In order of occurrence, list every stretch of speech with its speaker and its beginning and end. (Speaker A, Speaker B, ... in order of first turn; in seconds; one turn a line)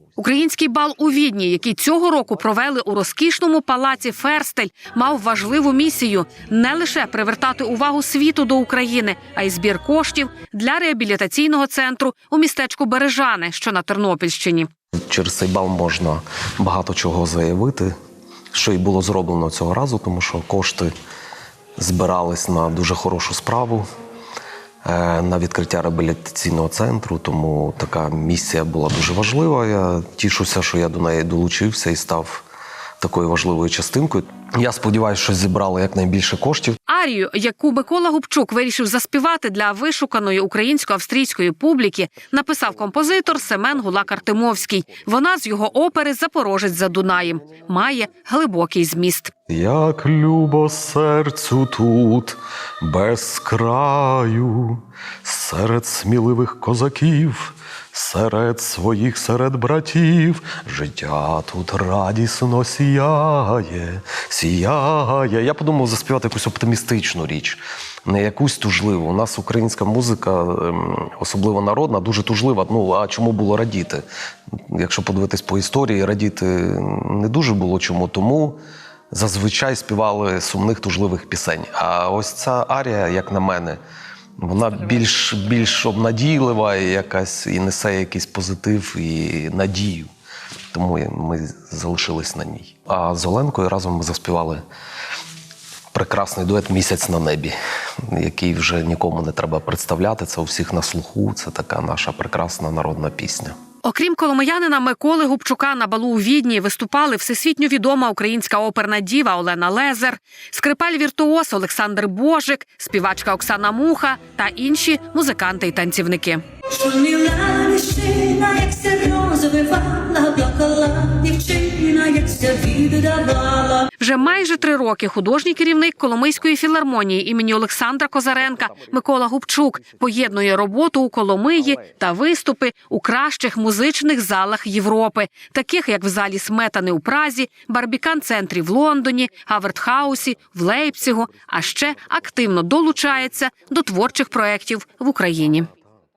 Speaker A: 0.2-14.7
Speaker B: 15.1-17.9
Speaker B: 18.5-20.9
Speaker B: 21.8-23.9
Speaker B: 24.9-32.5
Speaker B: 33.0-36.8
Speaker A: 36.9-49.3
Speaker B: 49.5-74.0
Speaker B: 74.7-78.6
Speaker B: 79.1-83.8
Speaker B: 84.4-90.1
Speaker B: 90.7-94.6
Speaker B: 95.9-97.5
Speaker B: 98.1-103.5
Speaker A: 103.8-116.4
Speaker C: 117.0-123.8
Speaker A: 124.0-145.7